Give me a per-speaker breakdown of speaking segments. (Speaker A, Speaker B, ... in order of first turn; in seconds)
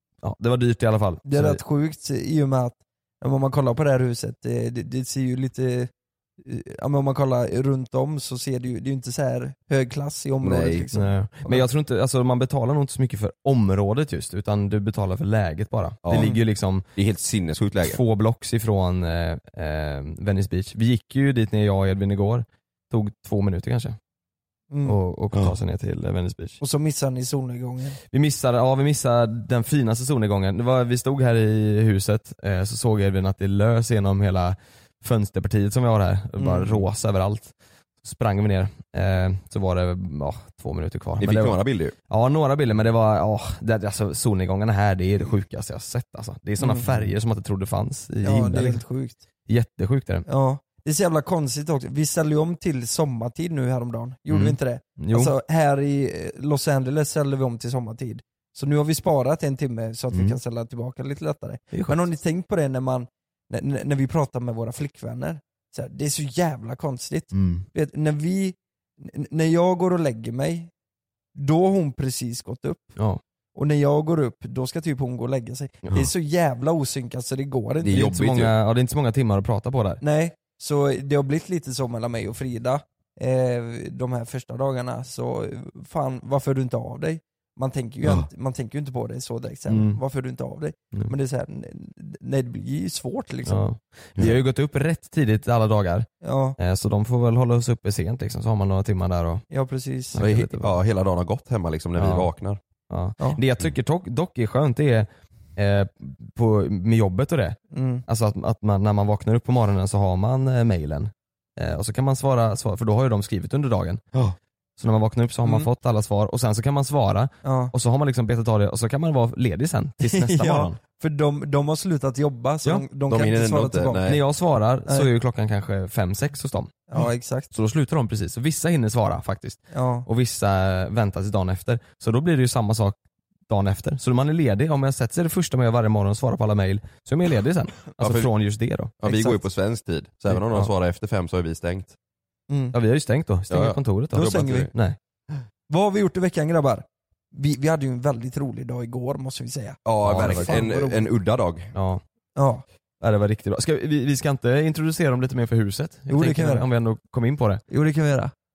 Speaker A: 0.2-1.6, 10.9-16.9, 17.8-24.0, 24.8-26.6, 28.1-48.8, 49.5-50.2, 54.3-55.3, 60.1-60.4, 61.7-62.1, 67.3-67.7, 77.9-80.0, 89.7-90.0, 93.5-96.1, 96.6-99.4, 100.1-100.8, 102.0-102.3, 102.9-114.0, 114.8-120.8, 124.1-126.7, 127.5-132.9, 133.5-138.9, 140.3-140.7, 142.7-145.0, 150.0-150.6, 151.7-152.0, 153.0-157.6
Speaker B: 1.2-5.9, 6.4-11.7, 16.1-16.4, 24.7-25.0, 26.6-28.0, 36.4-36.8, 46.6-46.9, 48.2-49.2, 50.3-70.7, 71.3-73.0, 73.5-78.1, 80.0-93.7, 96.2-96.6, 99.5-100.2, 107.7-108.0, 115.4-115.7, 117.4-117.7, 120.0-124.1, 126.9-127.5, 129.7-130.1, 139.0-139.4, 142.5-142.8, 144.1-144.7, 145.7-151.1, 152.3-152.6, 156.1-156.7, 157.7-158.3
Speaker C: 10.4-10.8, 16.0-16.3, 16.9-18.0, 41.2-41.9, 46.9-47.1, 77.8-78.5, 100.2-102.6, 123.1-124.2, 138.0-138.3, 139.0-141.9, 143.5-144.7, 149.8-151.7